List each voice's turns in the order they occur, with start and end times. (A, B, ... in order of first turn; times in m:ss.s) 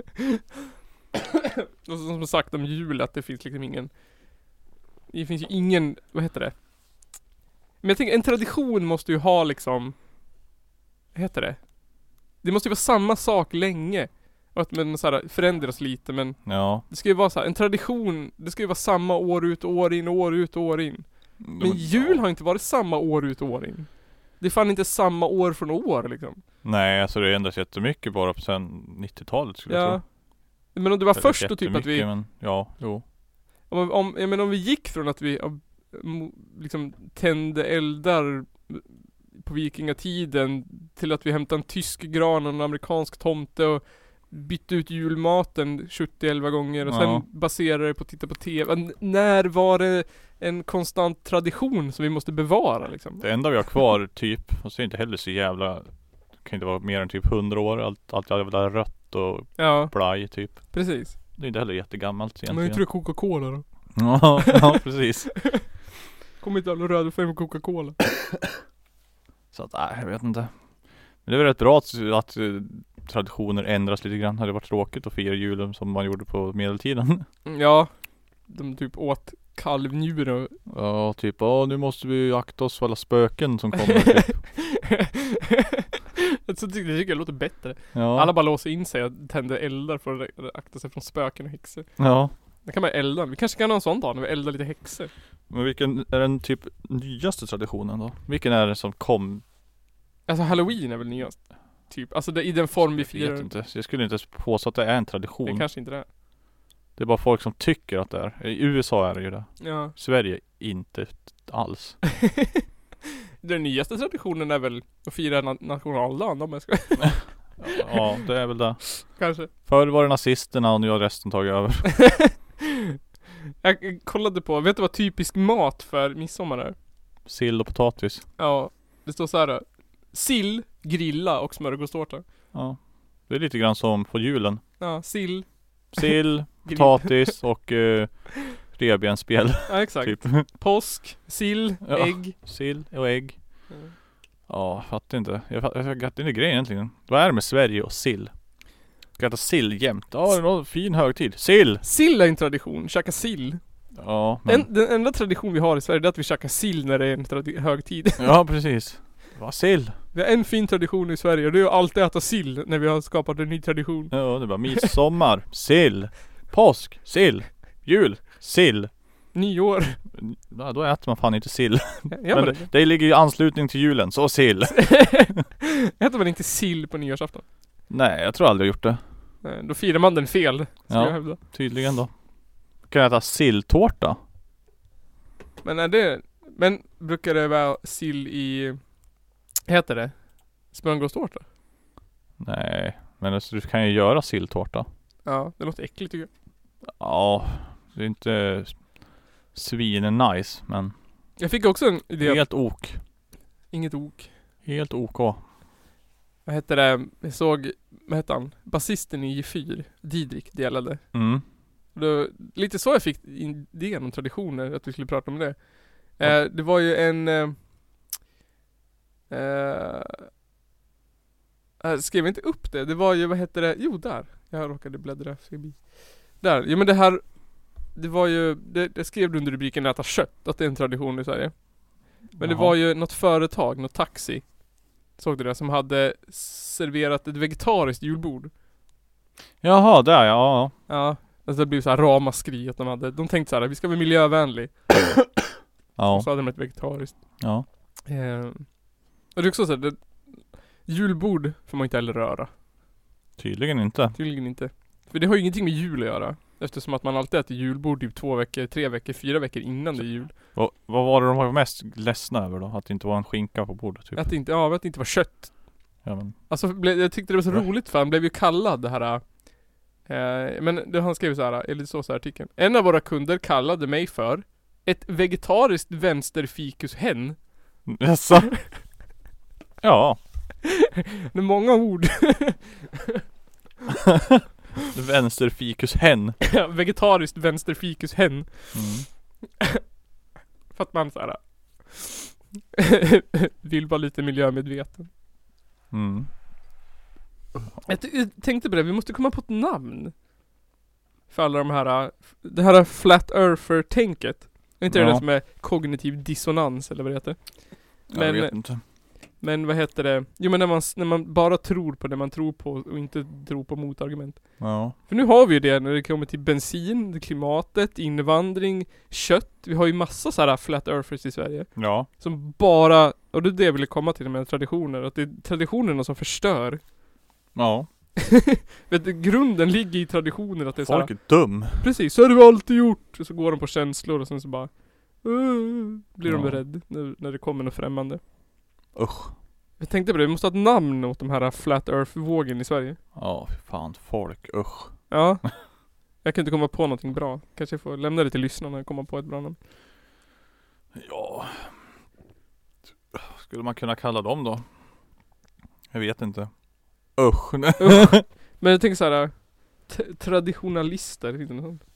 0:01.8-0:03.9 A
0:05.1-0:06.5 A
0:07.8-0:09.9 A
0:11.1-0:11.6 A
0:12.4-0:26.4 A
0:16.4-0:16.8 B
0:21.4-0:22.2 B
0:26.6-0:30.0 B
0:29.7-0:30.0 A
0:30.7-0:32.1 A
0:31.1-0:33.0 B
0:33.7-0:53.6 A
0:46.8-0:47.2 B
0:53.2-1:02.8 B
0:59.6-1:01.2 A
1:02.5-1:03.6 A
1:04.0-1:05.7 B
1:04.4-1:04.7 A
1:06.4-1:08.0 A
1:09.5-1:10.5 B
1:11.2-1:17.2 B
1:17.4-1:17.9 A
1:18.4-1:20.6 A
1:20.7-1:24.5 B
1:24.0-1:25.8 A
1:26.4-1:31.9 A
1:27.9-1:28.3 B
1:32.0-1:32.3 B
1:32.6-1:35.1 A
1:35.5-1:39.4 B
1:40.3-1:43.5 A
1:42.7-1:45.6 B
1:45.4-1:46.0 A
1:47.0-1:52.0 B
1:49.6-1:49.9 A
1:53.4-1:57.9 A
1:57.1-1:59.0 B
1:59.0-1:59.5 A
1:59.6-2:02.0 B
2:02.0-2:02.3 A
2:03.6-2:06.7 A
2:07.2-2:08.2 B
2:08.4-2:12.2 A
2:12.5-2:14.6 B
2:14.8-2:16.1 A
2:15.9-2:20.5 B
2:16.6-2:17.4 A
2:19.7-2:22.3 A
2:21.8-2:23.6 B
2:24.5-2:28.3 B
2:29.1-2:31.8 B
2:31.8-2:33.6 A
2:34.0-2:34.7 B
2:34.4-2:38.4 A
2:38.2-2:40.0 B
2:40.1-2:44.9 A
2:44.1-2:48.9 B
2:49.3-2:50.0 A
2:50.1-2:55.3 B
2:52.1-2:52.7 A
2:54.8-2:57.4 A
2:57.9-2:59.0 B
2:59.4-3:01.4 A
3:00.9-3:02.1 B
3:02.8-3:04.2 B
3:05.6-3:08.8 A
3:09.7-3:11.4 A
3:12.4-3:14.9 B
3:15.2-3:16.3 A
3:17.0-3:18.9 B
3:19.5-3:20.9 B
3:21.4-3:22.7 A
3:22.2-3:23.0 B
3:23.7-3:24.3 A
3:24.6-3:25.4 B
3:26.4-3:31.4 A
3:31.1-3:31.4 B
3:31.9-3:37.6 A
3:39.3-3:40.3 A
3:41.8-3:54.6 A
3:52.3-3:52.7 B
3:55.1-3:58.5 A
3:59.6-4:00.7 B
4:00.9-4:05.0 A
4:06.0-4:06.3 B
4:06.1-4:07.4 A
4:07.4-4:07.6 B
4:08.1-4:08.7 A
4:09.3-4:12.5 A
4:13.4-4:14.2 B
4:14.1-4:20.3 A
4:20.3-4:24.3 B
4:24.2-4:25.6 A
4:26.0-4:26.5 B
4:26.5-4:29.5 A
4:30.0-4:37.4 A
4:37.8-4:38.7 B
4:39.8-4:40.2 B
4:40.6-4:42.8 A
4:44.9-4:46.4 B
4:46.4-4:48.9 A
4:48.7-4:49.0 B
4:50.7-4:55.1 A
4:55.9-4:56.3 B
4:57.8-5:00.1 A
5:01.3-5:08.7 A
5:04.9-5:05.2 B
5:08.1-5:08.8 B
5:09.4-5:26.8 A
5:14.6-5:14.9 B
5:21.8-5:22.1 B
5:27.5-5:27.9 B
5:28.2-5:38.2 A
5:30.8-5:31.9 B
5:36.2-5:36.6 B
5:38.9-5:39.3 B
5:39.8-5:43.0 A
5:43.1-5:45.1 B
5:45.1-5:45.6 A
5:46.2-5:49.6 A
5:50.9-5:51.7 B
5:53.1-5:54.6 B
5:55.9-5:56.5 B
5:57.1-5:58.2 B
5:57.8-6:01.8 A